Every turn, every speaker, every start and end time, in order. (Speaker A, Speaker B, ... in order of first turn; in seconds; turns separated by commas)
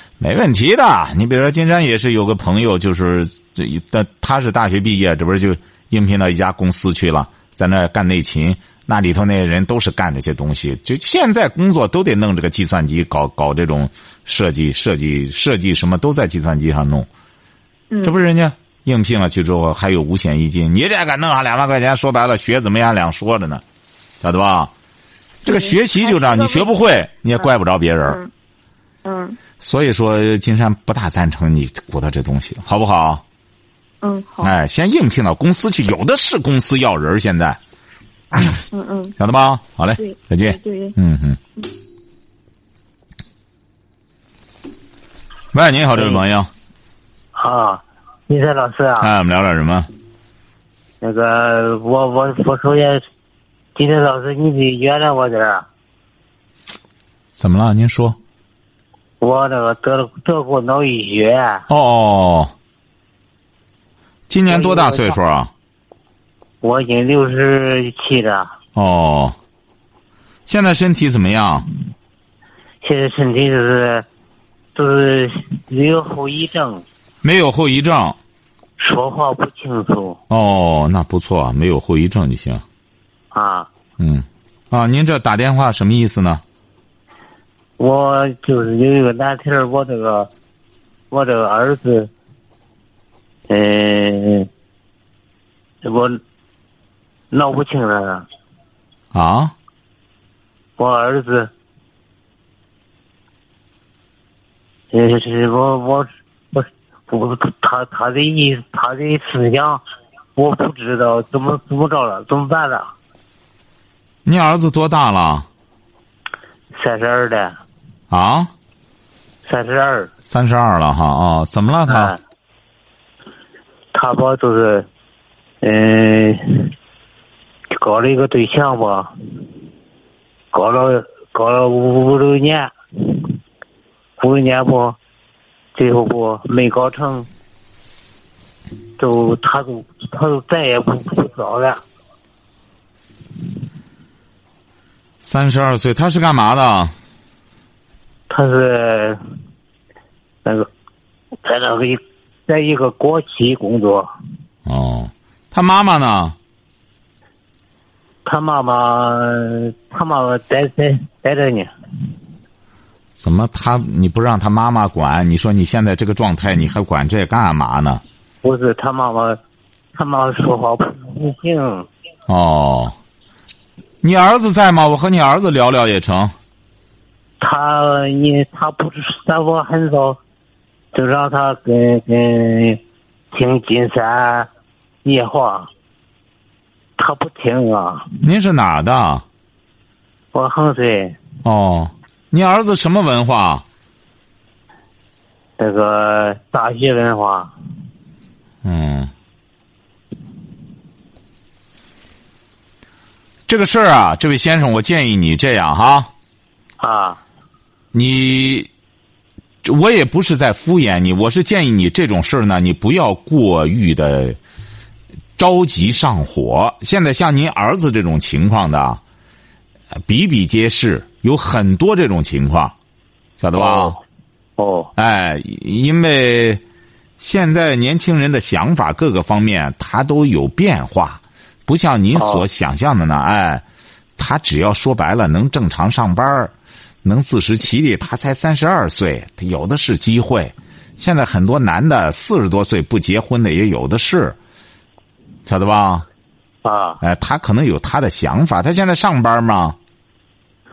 Speaker A: 0.2-17.1, Speaker B: 17.9-18.2, Speaker A: 18.0-23.6, Speaker A: 24.2-24.7, Speaker A: 25.4-28.2, Speaker B: 25.4-26.7, Speaker B: 28.0-28.3, Speaker B: 29.0-29.4, Speaker A: 29.6-33.2, Speaker B: 34.0-34.5, Speaker A: 34.4-37.6, Speaker A: 38.3-38.6, Speaker B: 38.7-39.2, Speaker A: 39.2-41.4, Speaker B: 40.0-40.9, Speaker A: 45.5-46.5, Speaker C: 46.0-46.2, Speaker C: 47.3-49.1, Speaker A: 49.0-49.9, Speaker C: 51.0-53.0, Speaker C: 53.7-55.6, Speaker A: 57.3-58.2, Speaker C: 59.2-61.6, Speaker A: 61.7-62.5, Speaker A: 64.3-65.5, Speaker C: 64.5-65.2, Speaker C: 66.6-68.5, Speaker A: 68.8-69.3, Speaker A: 70.5-71.6, Speaker C: 72.8-74.0, Speaker C: 74.7-76.8, Speaker A: 77.2-78.2, Speaker C: 78.8-80.2, Speaker A: 80.3-82.6, Speaker C: 83.3-83.7, Speaker A: 84.0-86.4, Speaker C: 87.8-90.3, Speaker C: 91.1-92.1, Speaker C: 93.5-94.5, Speaker C: 95.8-96.2, Speaker C: 97.3-98.2, Speaker A: 99.1-99.5, Speaker C: 100.8-101.5, Speaker C: 104.9-109.8, Speaker C: 110.3-112.9, Speaker A: 114.2-115.5, Speaker C: 116.7-117.5, Speaker A: 118.1-118.5, Speaker C: 119.4-120.1, Speaker A: 120.3-122.1, Speaker C: 121.9-122.2, Speaker C: 123.9-124.9, Speaker C: 125.6-126.7, Speaker C: 127.7-129.1, Speaker C: 130.5-133.3, Speaker C: 134.2-135.0, Speaker C: 135.7-137.3, Speaker C: 139.0-141.8, Speaker A: 145.2-146.9, Speaker C: 148.3-149.2, Speaker C: 151.4-154.1, Speaker A: 154.7-156.3, Speaker C: 158.2-161.7, Speaker A: 163.1-168.0, Speaker C: 168.4-169.4, Speaker C: 169.9-171.9, Speaker A: 172.3-172.9, Speaker A: 174.0-176.3, Speaker C: 177.4-180.2, Speaker C: 180.9-182.8, Speaker C: 183.3-184.5, Speaker C: 185.0-185.7, Speaker C: 187.0-188.1, Speaker A: 188.2-189.2, Speaker C: 190.3-191.2, Speaker A: 191.4-193.6, Speaker C: 195.6-197.5, Speaker A: 198.6-199.1, Speaker A: 203.5-206.1, Speaker C: 206.8-207.2, Speaker A: 207.9-208.7, Speaker A: 209.6-214.4, Speaker A: 215.4-219.0, Speaker A: 220.0-222.7, Speaker A: 223.4-224.0, Speaker C: 223.5-224.0, Speaker C: 224.6-224.9, Speaker A: 224.9-226.6, Speaker A: 227.2-233.6, Speaker C: 232.2-232.4, Speaker A: 234.2-236.5, Speaker A: 237.0-244.3, Speaker A: 245.4-246.1, Speaker C: 246.6-247.0, Speaker A: 247.0-249.8